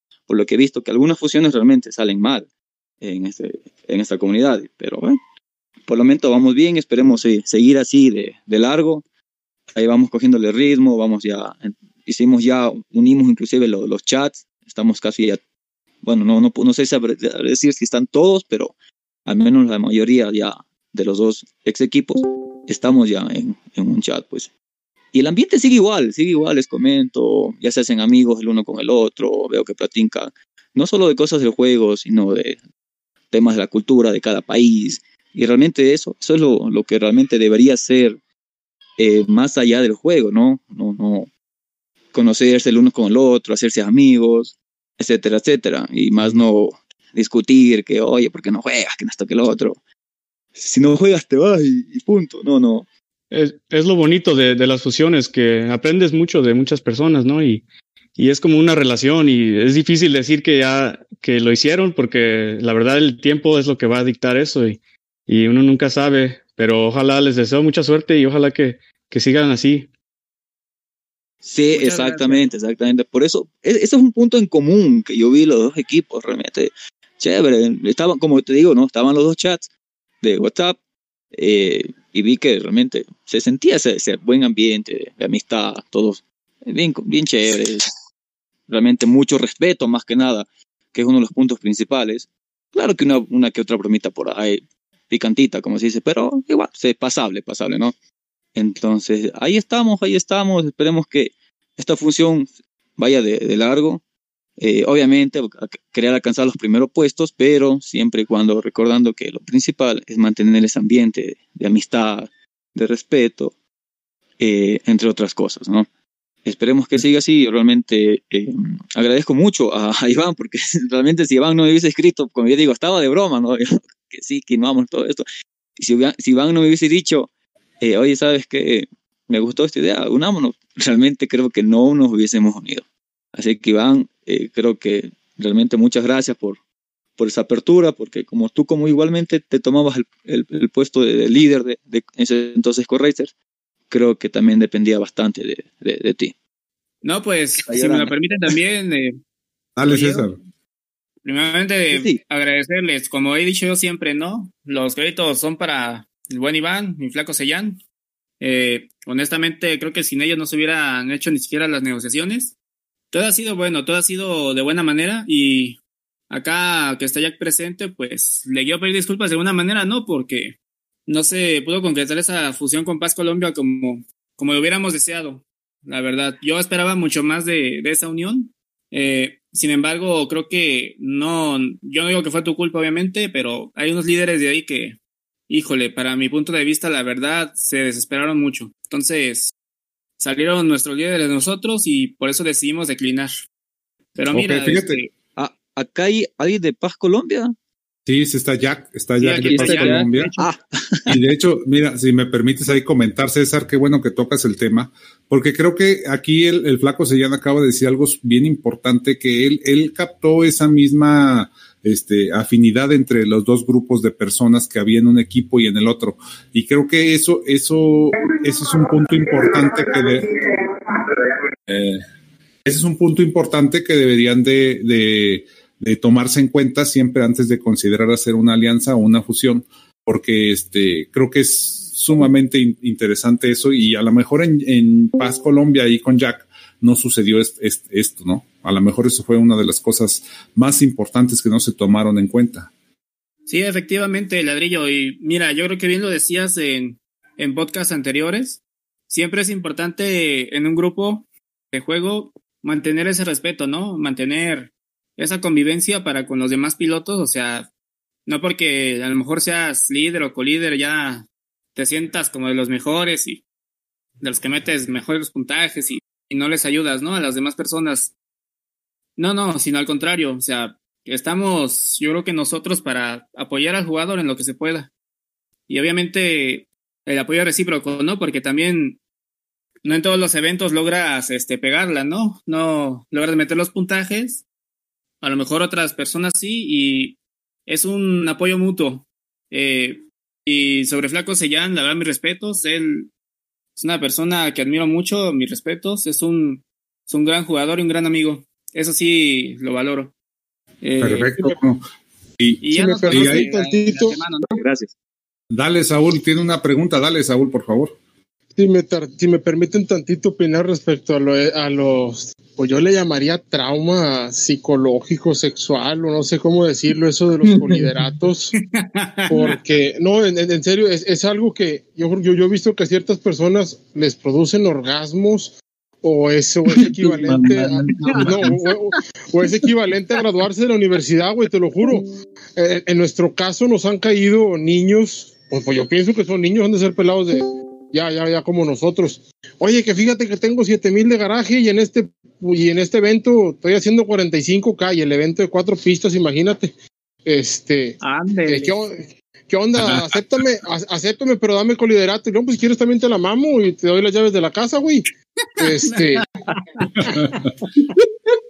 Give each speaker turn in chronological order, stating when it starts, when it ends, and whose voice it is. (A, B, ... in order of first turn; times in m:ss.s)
0:00.3-0:02.5 A
0:03.0-0:05.2 A
0:05.9-0:09.0 A
0:09.7-0:15.4 A
0:16.0-0:18.8 A
0:19.3-0:24.5 A
0:25.1-0:32.6 A
0:33.3-0:38.2 A
0:39.0-0:41.3 A
0:42.1-0:49.8 A
0:50.6-0:52.9 A
0:53.3-0:57.6 B
0:58.2-1:09.9 B
1:11.4-1:20.8 A
1:11.7-1:12.5 C
1:21.3-1:27.8 A
1:28.7-1:37.9 A
1:38.6-1:44.0 A
1:44.6-1:53.5 A
1:54.4-1:55.9 A
1:56.4-2:05.2 A
2:05.8-2:07.3 A
2:07.8-2:16.6 A
2:17.2-2:23.3 A
2:23.9-2:26.4 A
2:27.0-2:29.2 C
2:27.6-2:28.1 A
2:29.8-2:30.4 D
2:29.8-2:30.3 C
2:31.2-2:37.8 C
2:31.9-2:32.2 A
2:38.4-2:42.6 C
2:43.1-3:05.0 C
3:05.5-3:09.5 C
3:10.2-3:13.3 C
3:14.1-3:15.1 C
3:14.3-3:15.0 D
3:15.4-3:17.5 A
3:18.1-3:20.4 D
3:19.2-3:20.5 C
3:19.4-3:21.0 A
3:21.1-3:40.3 D
3:41.7-3:42.0 D
3:42.6-4:02.7 D
4:03.5-4:17.7 C
4:18.3-4:23.4 C
4:24.2-4:28.1 C
4:29.2-4:34.9 C
4:35.7-4:39.0 C
4:39.8-4:44.4 C
4:45.2-4:53.1 C
4:53.8-5:00.1 C
5:00.8-5:01.6 C
5:01.0-5:01.8 D
5:02.4-5:03.5 D
5:02.6-5:04.6 C
5:02.7-5:04.2 E
5:04.6-5:04.9 A
5:05.5-5:08.0 D
5:08.6-5:18.6 E
5:18.7-5:19.6 C
5:19.3-5:32.0 E
5:27.3-5:28.5 C
5:32.6-5:37.4 E
5:37.9-5:46.7 E
5:47.2-5:55.1 E
5:48.0-5:48.7 C
5:49.8-5:50.2 D
5:55.6-5:56.2 E
5:55.6-5:57.9 C
5:57.0-5:57.4 D